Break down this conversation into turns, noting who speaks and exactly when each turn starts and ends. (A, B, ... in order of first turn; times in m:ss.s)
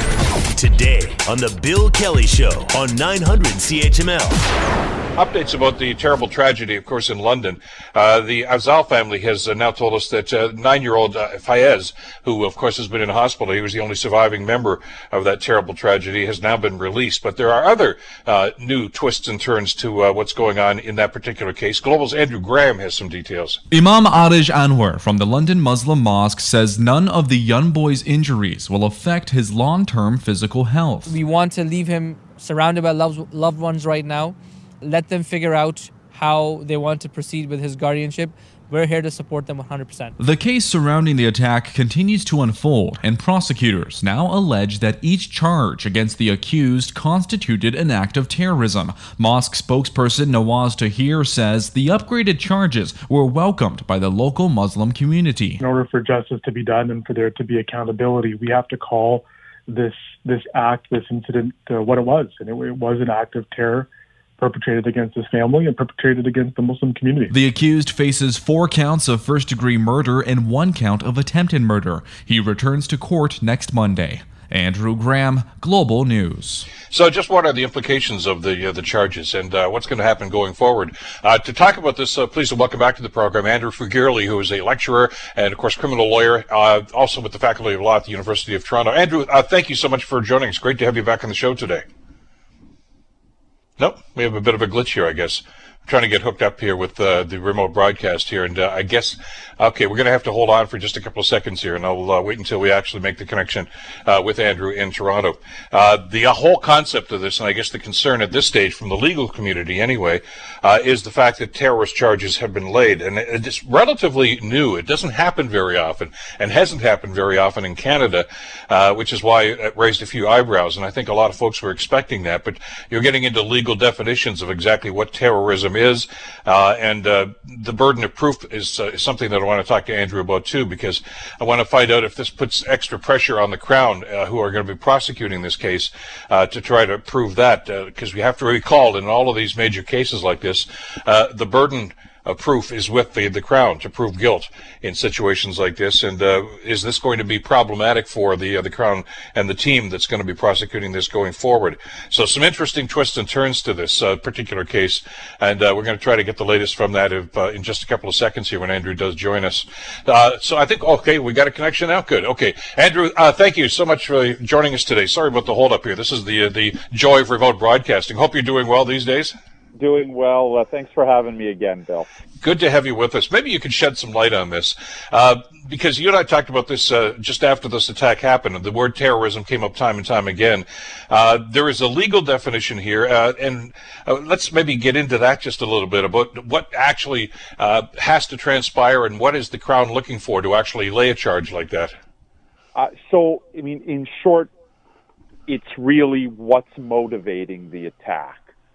0:00.5-0:04.4 A
0:05.1-0:23.6 B
0:23.7-0:31.2 C
0:31.0-0:40.1 D
0:40.2-0:55.6 C
0:55.6-1:07.3 E
1:07.3-1:16.7 C
1:16.9-1:31.8 B
1:33.8-2:49.4 B
2:49.8-2:52.1 F
2:52.4-3:12.0 B
3:12.7-3:14.5 F
3:15.5-3:18.4 F